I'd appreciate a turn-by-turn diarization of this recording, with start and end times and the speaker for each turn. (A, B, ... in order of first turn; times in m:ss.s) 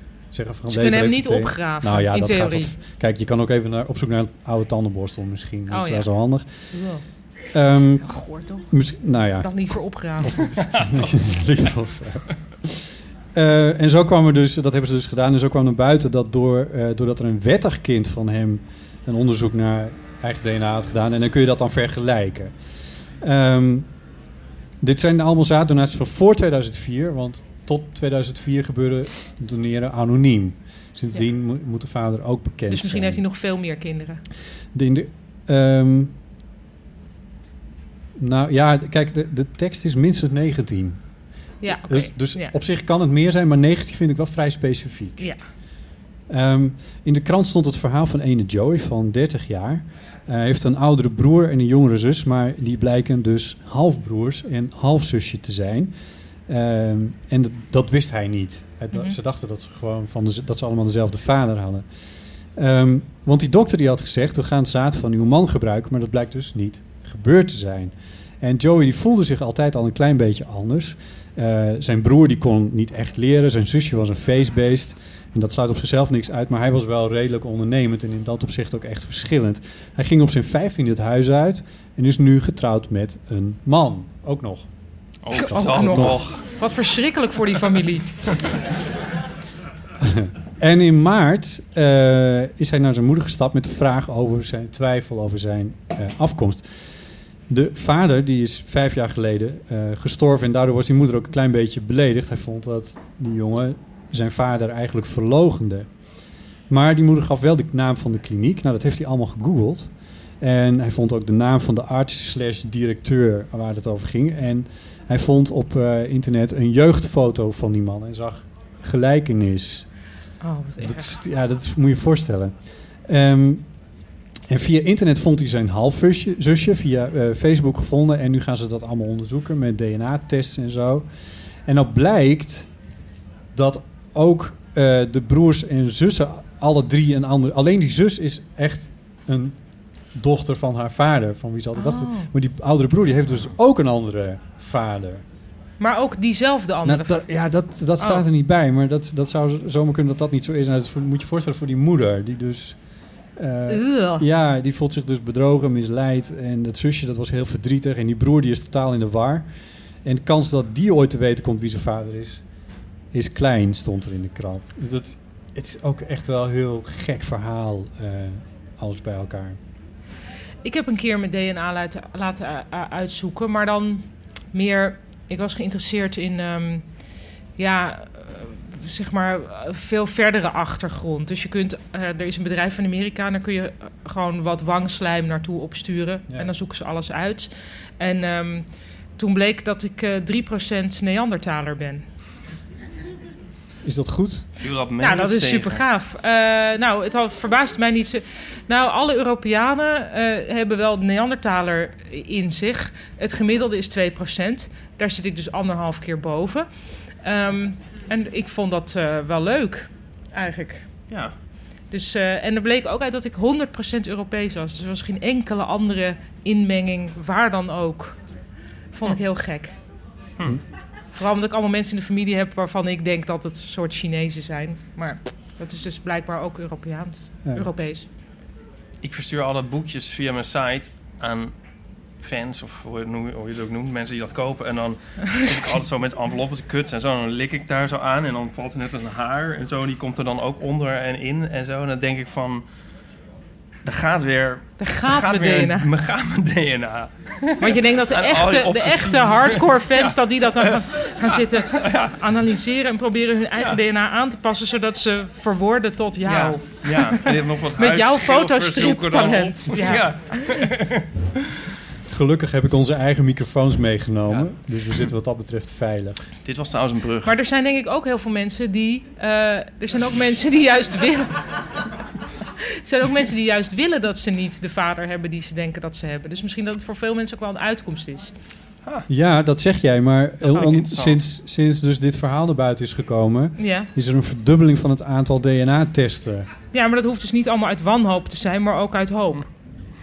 0:00.3-0:06.5 A
0:00.7-0:02.7 B
0:05.7-0:06.1 B
0:06.7-0:07.0 B
0:07.5-0:08.1 A
0:08.0-0:08.7 B
0:08.7-0:09.5 A
0:09.4-0:10.6 B
0:10.2-0:22.5 A
0:23.2-0:23.9 A
0:24.8-0:33.2 A
0:32.7-0:34.2 B
0:34.7-0:36.1 A
0:38.2-0:41.0 A
0:41.6-0:42.5 B
0:41.7-0:45.2 A
0:46.3-0:55.9 A
0:56.5-1:01.8 A
1:02.6-1:24.7 A
1:25.2-1:26.4 C
1:25.3-1:28.1 B
1:25.5-1:26.2 A
1:30.0-1:36.6 A
1:37.5-1:45.9 A
1:46.7-1:59.9 A
2:00.4-2:01.1 B
2:00.8-2:02.5 A
2:03.0-2:03.6 A
2:04.5-2:11.0 A
2:11.7-2:12.7 A
2:13.5-2:19.6 A
2:20.1-2:25.2 A
2:21.8-2:22.3 B
2:25.8-2:27.2 B
2:26.8-2:32.8 A
2:33.4-2:39.4 A
2:33.7-2:34.2 B
2:40.0-2:42.4 A
2:43.1-2:49.6 A
2:50.6-2:56.8 B
2:57.6-3:08.6 B
3:09.2-3:12.0 B
3:13.8-3:14.4 A
3:14.6-3:15.8 C
3:15.0-3:26.7 B
3:27.2-3:30.9 B
3:31.9-3:38.2 B
3:38.9-3:39.7 B
3:41.1-3:48.1 B
3:49.0-3:51.5 C
3:52.2-4:02.6 C
4:03.8-4:12.1 C
4:04.8-4:05.9 B
4:07.6-4:20.7 B
4:16.2-4:21.4 C
4:22.1-4:26.2 A
4:26.4-4:27.4 C
4:27.2-4:31.5 B
4:32.6-4:38.3 B
4:39.1-4:46.5 A
4:40.4-4:41.2 C
4:43.6-4:43.9 B
4:46.7-4:49.5 B